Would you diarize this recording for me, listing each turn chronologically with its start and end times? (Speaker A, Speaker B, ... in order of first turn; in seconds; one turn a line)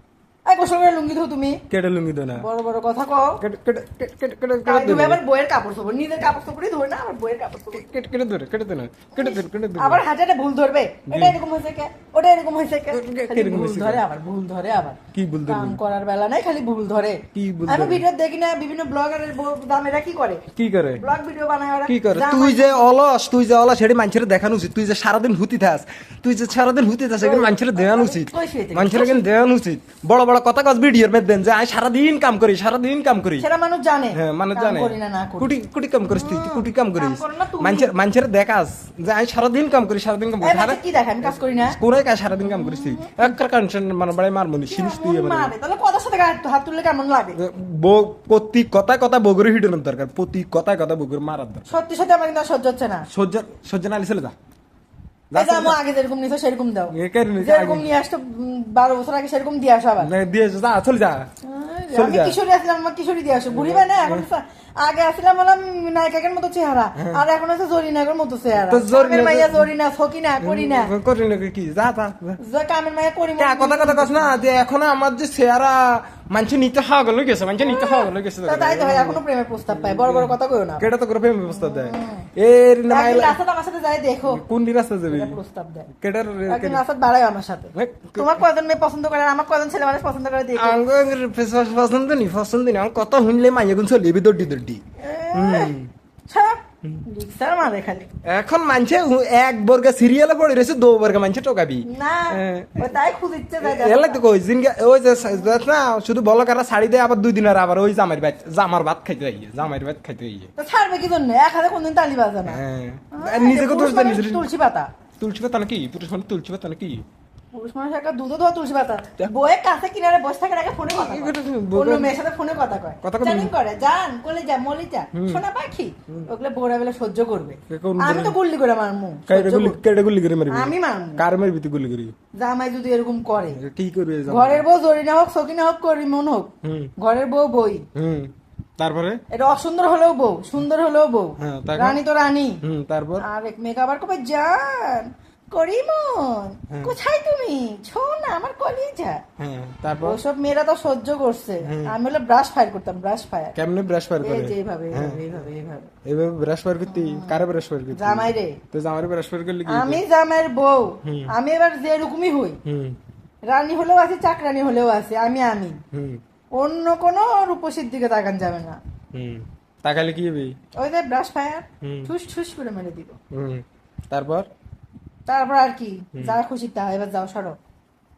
Speaker A: 0.5-1.6
Speaker B: 1.7-2.5
Speaker A: 2.4-3.4
Speaker B: 3.4-5.2
Speaker A: 4.7-7.9
Speaker B: 7.7-10.0
Speaker A: 9.2-20.4
Speaker B: 11.1-11.4
Speaker B: 12.9-14.0
Speaker B: 15.1-15.8
Speaker B: 17.3-18.0
Speaker B: 20.6-21.0
Speaker A: 21.0-22.9
Speaker B: 21.9-33.5
Speaker A: 27.2-29.2
Speaker A: 33.4-35.5
Speaker B: 34.1-45.5
Speaker A: 36.1-37.9
Speaker A: 40.4-41.8
Speaker A: 42.3-43.4
Speaker A: 44.7-47.4
Speaker B: 47.4-51.8
Speaker A: 51.7-53.1
Speaker B: 53.1-54.4
Speaker B: 55.3-55.8
Speaker A: 55.4-60.1
Speaker B: 56.9-57.9
Speaker B: 60.0-61.3
Speaker A: 61.4-70.9
Speaker B: 61.9-62.4
Speaker B: 63.5-64.3
Speaker B: 67.0-67.2
Speaker B: 68.6-69.7
Speaker B: 70.4-72.4
Speaker A: 72.4-74.4
Speaker B: 73.4-83.4
Speaker A: 77.6-80.8
Speaker A: 81.5-82.3
Speaker A: 82.9-84.4
Speaker B: 84.3-85.4
Speaker A: 85.1-85.9
Speaker B: 85.9-86.8
Speaker A: 86.5-90.8
Speaker B: 87.7-88.4
Speaker B: 90.6-94.8
Speaker A: 95.0-95.7
Speaker B: 95.3-95.9
Speaker A: 96.3-98.1
Speaker B: 98.2-103.0
Speaker A: 101.8-104.2
Speaker B: 103.6-110.5
Speaker A: 110.6-112.6
Speaker B: 112.5-114.5
Speaker A: 113.1-114.9
Speaker B: 115.2-117.0
Speaker A: 117.5-129.8
Speaker B: 120.9-122.2
Speaker B: 123.0-123.5
Speaker B: 125.1-125.4
Speaker B: 127.7-128.4
Speaker B: 129.3-132.1
Speaker A: 130.5-131.2
Speaker A: 132.3-133.6
Speaker B: 133.5-134.6
Speaker A: 134.3-137.8
Speaker B: 136.6-136.9
Speaker B: 137.9-139.2
Speaker A: 139.3-142.6
Speaker B: 141.4-142.0
Speaker B: 142.6-143.2
Speaker A: 143.2-149.2
Speaker B: 146.7-147.0
Speaker B: 149.4-150.2
Speaker A: 150.0-153.6
Speaker B: 151.6-152.0
Speaker B: 153.6-155.4
Speaker A: 154.2-155.9
Speaker B: 156.1-160.0
Speaker A: 156.9-157.4
Speaker A: 157.9-158.6
Speaker A: 159.7-162.6
Speaker B: 161.0-161.3
Speaker B: 162.7-163.0
Speaker A: 163.5-165.8
Speaker B: 165.9-166.2
Speaker A: 166.6-168.8
Speaker B: 169.1-170.6
Speaker A: 170.8-173.2
Speaker B: 171.8-172.1
Speaker B: 173.3-174.5
Speaker A: 175.3-177.6
Speaker B: 176.2-176.4